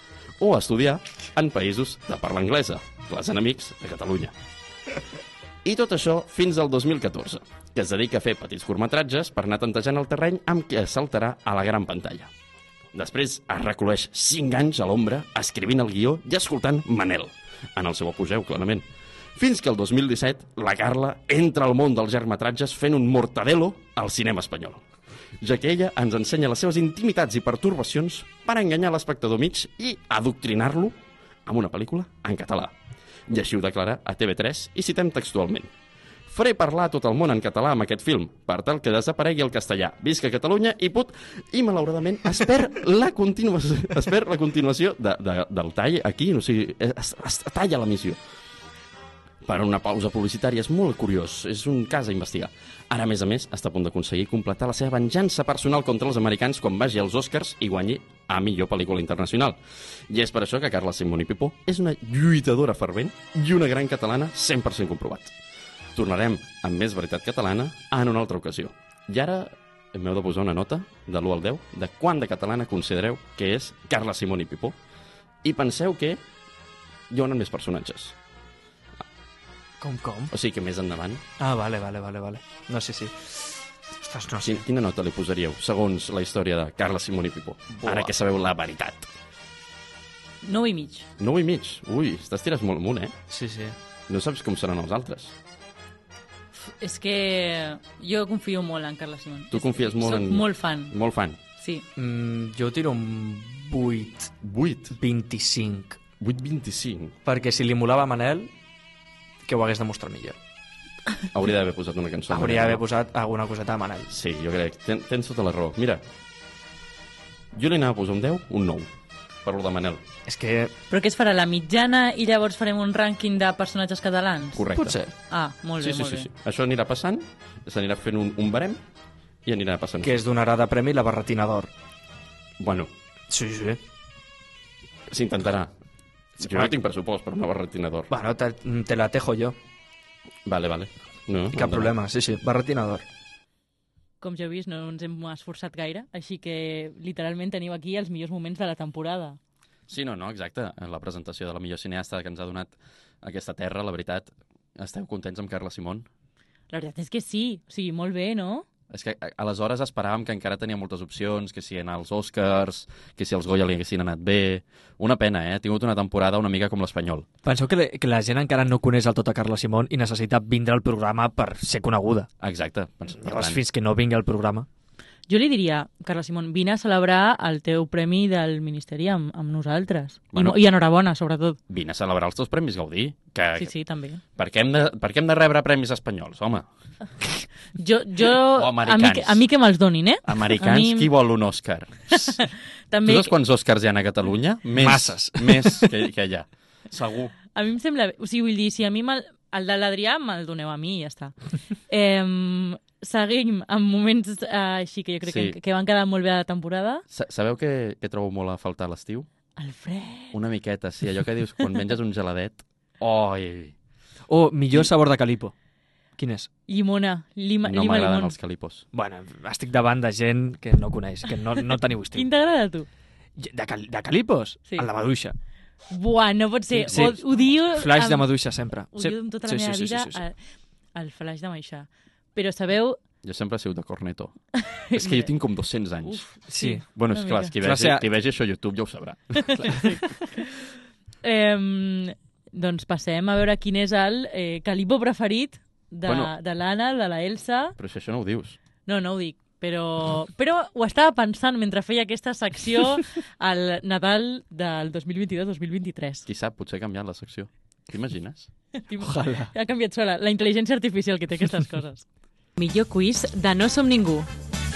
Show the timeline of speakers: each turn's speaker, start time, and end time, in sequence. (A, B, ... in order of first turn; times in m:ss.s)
0:00.4-0:04.3 A
0:05.6-0:12.3 A
0:12.9-0:18.8 A
0:19.4-0:24.8 A
0:25.4-0:32.7 A
0:33.3-0:35.7 A
0:36.3-0:48.2 A
0:49.4-0:59.6 A
1:00.1-1:05.4 A
1:06.0-1:14.8 A
1:15.4-1:16.2 A
1:17.1-1:18.2 A
1:19.8-1:20.3 B
1:20.3-1:21.2 A
1:21.4-1:24.6 B
1:24.4-1:29.1 A
1:27.8-1:28.1 B
1:30.4-1:31.1 C
1:31.2-1:33.2 A
1:33.3-1:33.8 B
1:34.1-1:35.3 A
1:36.6-1:40.9 C
1:39.5-1:41.4 A
1:41.6-1:41.8 C
1:42.0-1:44.3 B
1:44.4-1:45.0 A
1:45.0-1:46.0 B
1:46.2-1:47.2 A
1:47.3-1:48.5 B
1:49.4-1:50.4 B
1:51.3-1:52.8 A
1:52.3-1:54.1 B
1:54.1-1:56.0 A
1:57.5-1:58.9 A
1:59.4-2:00.0 A
2:00.3-2:00.7 B
2:00.9-2:04.6 C
2:04.6-2:05.0 A
2:04.8-2:05.1 B
2:05.3-2:06.3 C
2:05.8-2:08.8 A
2:09.4-2:10.2 A
2:10.0-2:11.7 B
2:12.6-2:12.9 A
2:13.3-2:13.8 B
2:15.1-2:15.7 A
2:16.4-2:18.1 A
2:16.4-2:16.7 B
2:18.1-2:19.6 B
2:20.5-2:21.9 A
2:21.5-2:23.1 B
2:24.2-2:29.4 C
2:29.9-2:36.1 A
2:36.7-2:38.7 C
2:38.9-2:47.3 A
2:47.4-2:52.3 B
2:52.4-2:53.6 A
2:53.2-2:54.7 B
2:55.3-3:01.6 C
3:01.7-3:03.7 A
3:03.6-3:04.2 C
3:04.4-3:06.7 A
3:07.8-3:11.1 C
3:08.5-3:09.4 A
3:10.3-3:12.4 A
3:12.2-3:13.3 C
3:13.0-3:17.3 A
3:14.8-3:15.9 B
3:17.5-3:21.4 C
3:21.9-3:27.0 C
3:25.3-3:25.6 A
3:27.1-3:29.3 A
3:29.6-3:30.3 C
3:30.3-3:33.8 A
3:34.3-3:35.5 B
3:36.2-3:36.5 B
3:36.7-3:38.4 C
3:37.6-3:38.8 A
3:38.9-3:42.3 B
3:42.1-3:42.9 C
3:43.4-3:45.4 B
3:45.9-3:48.3 C
3:46.7-3:50.2 B
3:46.9-3:47.2 A
3:48.9-3:50.4 C
3:51.0-3:53.0 C
3:53.2-3:54.4 A
3:54.6-3:55.3 C
3:54.9-3:56.2 A
3:56.0-3:57.5 C
3:56.5-3:56.8 B
3:57.0-4:00.0 A
3:57.6-3:58.0 B
4:00.2-4:00.6 C
4:01.2-4:07.8 C
4:06.1-4:06.3 A
4:07.8-4:08.6 A
4:08.9-4:16.3 C
4:16.3-4:18.5 A
4:18.9-4:22.1 C
4:19.0-4:19.5 B
4:22.6-4:24.3 C